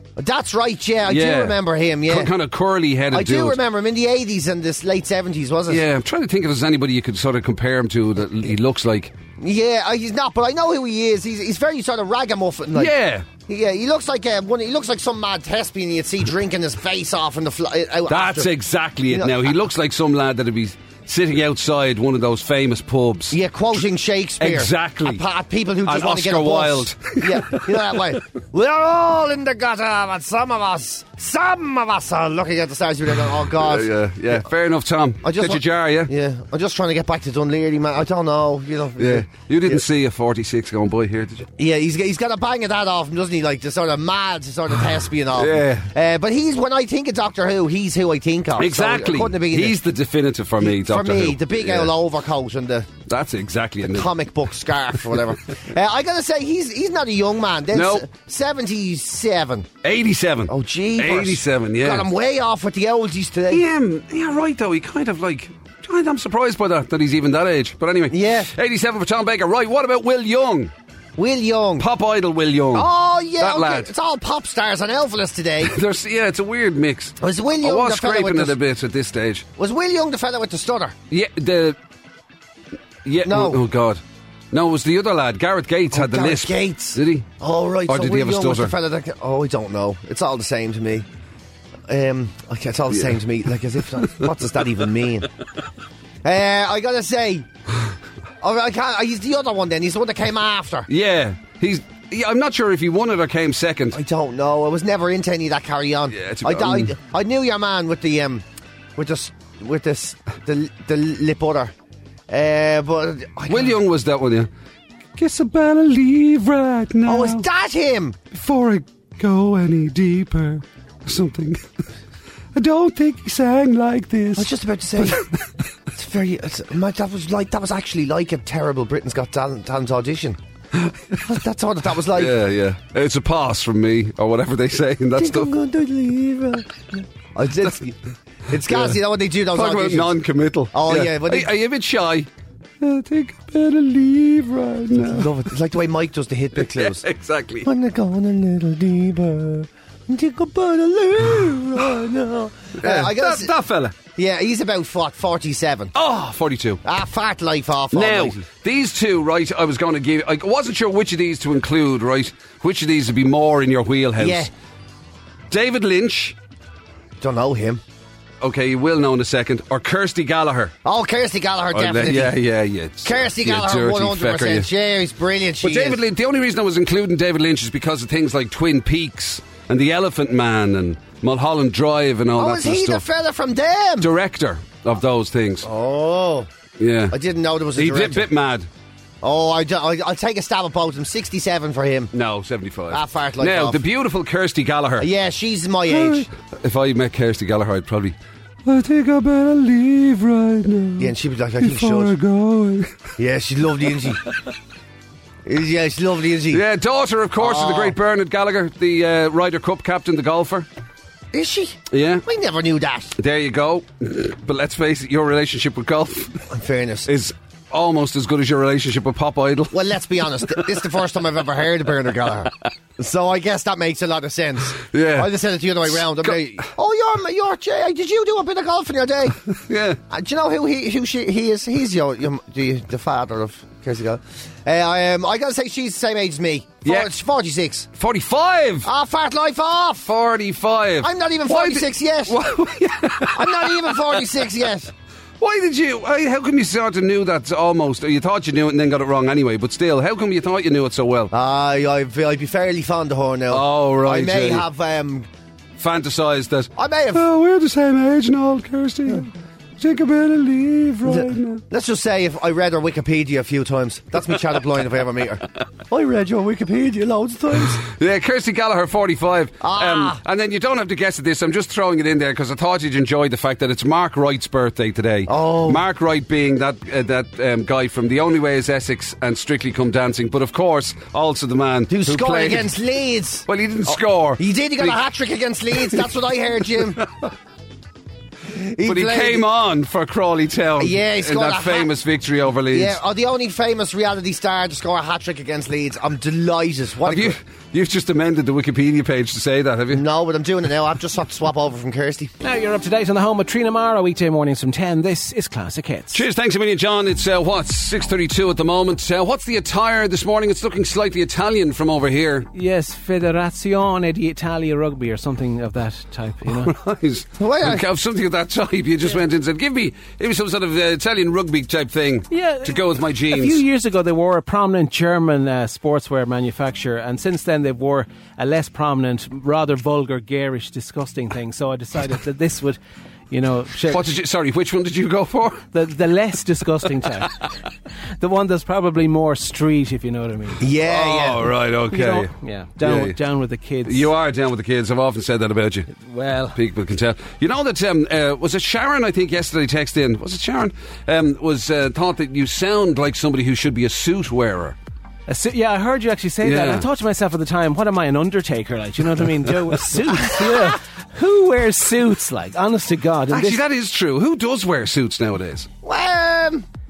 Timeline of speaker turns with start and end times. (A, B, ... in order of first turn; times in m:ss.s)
0:00.2-0:02.3 A
0:01.1-0:03.6 B
0:03.1-0:05.8 A
0:05.7-0:09.1 B
0:09.4-0:18.5 A
0:12.8-0:13.3 B
0:18.1-0:23.4 B
0:19.1-0:19.6 A
0:23.3-0:34.4 A
0:24.4-0:25.2 B
0:25.9-0:27.9 B
0:33.5-0:36.1 B
0:35.2-0:39.8 A
0:39.0-0:41.5 B
0:41.6-0:49.8 A
0:45.4-0:45.9 B
0:48.6-0:51.9 B
0:50.6-0:52.9 A
0:53.1-0:54.1 B
0:53.8-0:59.7 A
0:57.7-0:58.1 B
0:59.8-1:02.1 B
1:00.5-1:03.6 A
1:03.5-1:10.7 B
1:08.1-1:08.5 A
1:11.2-1:11.9 A
1:11.8-1:13.9 B
1:12.7-1:15.8 A
1:15.6-1:19.5 B
1:17.2-1:18.6 A
1:19.6-1:21.0 A
1:21.1-1:21.8 B
1:23.0-1:24.0 B
1:23.2-1:23.6 A
1:24.5-1:27.3 B
1:25.9-1:31.1 A
1:27.9-1:28.7 B
1:31.9-1:35.3 A
1:32.9-1:33.2 B
1:36.2-1:37.5 A
1:38.4-1:40.9 A
1:40.9-1:44.0 B
1:43.9-1:48.4 A
1:46.1-1:47.0 B
1:49.0-1:51.7 A
1:52.3-1:53.8 A
1:53.5-1:54.5 B
1:55.2-1:57.5 B
1:57.0-1:58.2 A
1:58.3-2:01.7 B
2:02.5-2:05.4 B
2:04.4-2:05.3 A
2:05.9-2:10.4 A
2:10.7-2:11.3 B
2:11.3-2:12.4 A
2:12.1-2:15.5 B
2:15.2-2:18.0 A
2:18.5-2:20.2 A
2:18.7-2:19.0 B
2:19.5-2:22.3 B
2:20.7-2:21.5 A
2:22.8-2:25.4 B
2:24.9-2:27.0 A
2:26.6-2:27.7 B
2:27.6-2:33.5 A
2:32.8-2:34.0 B
2:34.2-2:35.9 A
2:36.0-2:36.8 B
2:36.8-2:38.4 A
2:37.9-2:44.5 B
2:44.2-2:44.5 A
2:45.5-2:46.4 B
2:47.2-2:47.8 A
2:48.4-2:50.7 B
2:50.8-2:52.4 A
2:51.7-2:54.7 B
2:53.0-2:56.0 A
2:55.6-3:03.0 B
3:02.4-3:04.1 A
3:04.0-3:05.7 B
3:05.6-3:06.5 A
3:06.8-3:07.2 B
3:07.1-3:08.3 A
3:07.8-3:08.7 B
3:09.2-3:12.1 A
3:12.1-3:15.1 B
3:12.9-3:13.8 A
3:15.0-3:16.3 A
3:15.9-3:23.0 B
3:21.0-3:22.2 A
3:23.2-3:24.2 A
3:25.4-3:26.6 A
3:26.5-3:30.7 B
3:27.4-3:28.0 A
3:31.3-3:33.2 A
3:31.9-3:32.2 B
3:33.2-3:36.5 B
3:36.5-3:37.1 A
3:37.1-3:39.8 B
3:39.7-3:49.4 A
3:40.3-3:40.7 B
3:44.8-3:45.3 B
3:45.9-3:46.4 B
3:49.5-3:50.0 B
3:50.1-3:57.9 A
3:58.0-3:58.9 B
3:58.8-4:00.1 A
4:00.0-4:04.3 B
4:01.0-4:02.4 A
4:03.3-4:04.9 A
4:05.4-4:11.3 B
4:11.3-4:15.3 A
4:13.5-4:14.7 B
4:15.8-4:21.6 B
4:16.8-4:17.2 A
4:21.1-4:27.8 A
4:27.8-4:42.7 B
4:29.6-4:30.2 A
4:35.3-4:35.8 A
4:41.9-4:47.0 A
4:43.5-4:45.0 B
4:47.0-4:47.3 B
4:48.5-4:49.4 A
4:48.8-4:53.0 B
4:50.8-4:51.9 A
4:52.7-4:57.4 A
4:57.0-5:00.0 B
4:59.9-5:02.3 A
5:02.4-5:06.2 C
5:06.1-5:12.5 B
5:12.5-5:16.7 C
5:16.5-5:23.6 B
5:17.4-5:17.8 A
5:22.3-5:32.8 C
5:33.3-5:34.1 C
5:33.9-5:35.6 B
5:35.7-5:37.5 C
5:38.2-5:40.6 C
5:40.6-5:41.5 A
5:40.8-5:43.2 B
5:41.9-5:44.1 C
5:43.8-5:45.9 B
5:46.0-5:46.6 C
5:46.5-5:54.8 B
5:55.3-6:03.6 C
5:56.4-5:56.9 B
6:00.2-6:00.7 A
6:03.3-6:05.7 B
6:05.8-6:06.7 A